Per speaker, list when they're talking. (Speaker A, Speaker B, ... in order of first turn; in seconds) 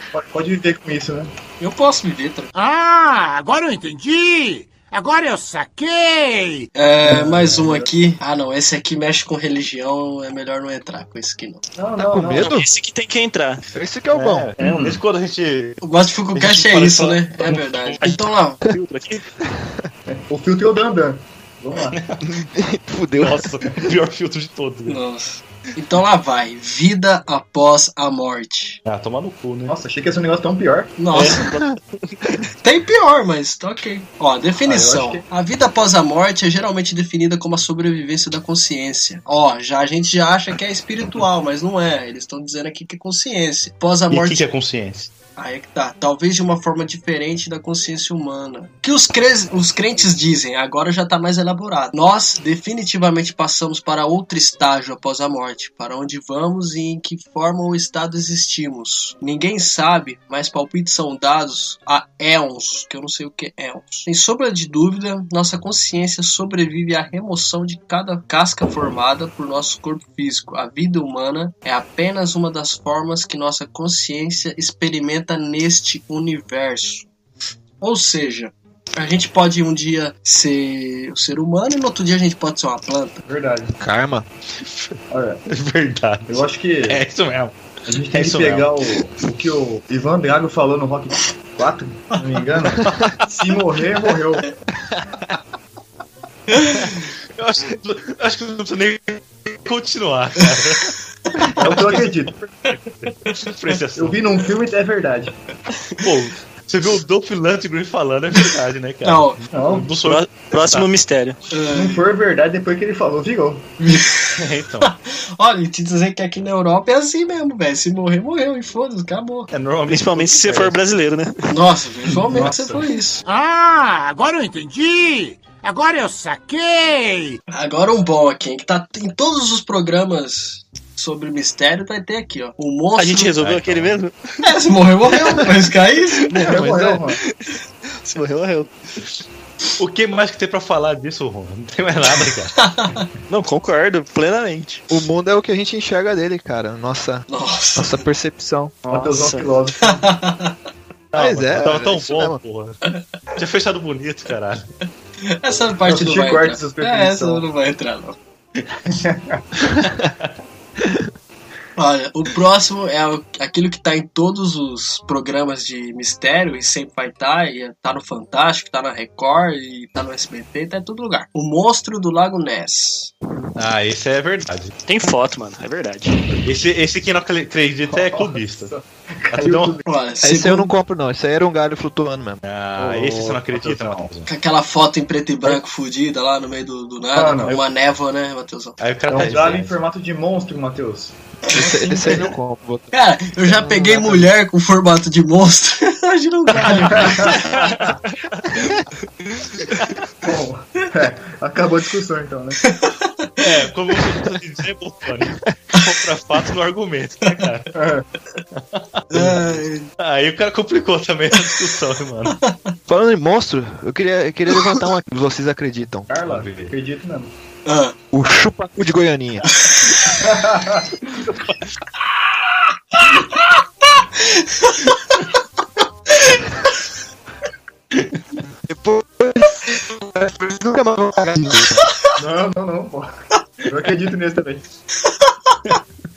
Speaker A: 0.1-1.3, 7.0-7.9, 11.8-12.5, 14.6-15.0, 20.1-22.0, 29.7-30.9, 34.6-35.2, 83.2-83.8, 85.1-85.4, 86.3-87.0, 87.9-94.5, 101.5-102.5, 104.0-105.4, 109.5-109.9, 111.7-113.7, 122.1-122.8, 136.4-137.2, 148.8-150.1, 155.8-157.5, 158.8-159.4, 177.9-179.8, 182.8-184.1, 187.1-187.6, 189.1-192.3, 196.6-197.9, 200.2-202.6, 207.7-208.1, 216.1-217.3, 220.0-220.9, 232.2-233.1, 233.6-234.6
Speaker B: 1.6-2.5, 6.7-11.6, 15.8-18.6, 24.9-28.8, 31.0-31.5, 32.6-44.4, 45.4-77.1, 77.8-83.2, 96.5-97.0, 105.7-106.1, 109.0-109.4, 111.5-112.0, 113.8-119.5, 121.5-123.2, 127.5-133.3, 134.4-136.4, 142.6-143.0, 147.3-148.0, 149.8-150.6, 155.2-158.2, 161.8-173.1, 179.8-180.7, 184.3-188.8, 192.9-197.3, 202.6-203.6, 209.1-209.9, 212.4-212.7, 217.7-217.9, 219.4-220.2, 222.9-225.4, 226.2-226.5, 235.0-235.8
Speaker C: 2.5-6.7, 123.2-127.4
Speaker D: 12.0-12.7, 13.7-14.5, 19.4-19.9, 22.2-23.5, 83.8-84.2, 136.3-137.0, 144.9-148.8, 151.1-152.4, 159.8-160.0, 160.8-161.1, 180.2-182.4, 191.5-194.3, 212.9-216.1, 218.1-219.5, 228.7-231.9
Speaker E: 12.3-13.6, 18.0-19.2, 31.1-32.4, 110.0-111.4, 119.9-121.5, 133.0-134.5, 135.1-135.6, 137.2-138.7, 143.3-144.9, 148.9-149.6, 174.9-176.4
Speaker F: 14.1-15.8, 16.3-18.1, 21.9-22.3, 23.2-25.0, 28.9-29.7, 44.1-45.1, 84.6-87.5, 88.1-88.9, 92.9-93.1, 97.4-101.0, 101.7-102.1, 102.8-104.2, 106.0-110.9, 114.4-114.9, 119.5-120.8, 133.4-134.0, 139.8-142.6, 151.1-152.8, 153.3-154.7, 159.8-160.3, 173.6-174.7, 176.4-178.7, 179.3-179.8, 182.4-184.3, 188.8-189.7, 196.6-197.9, 203.4-207.7, 208.5-209.4, 210.0-212.4, 216.2-216.7, 227.9-228.2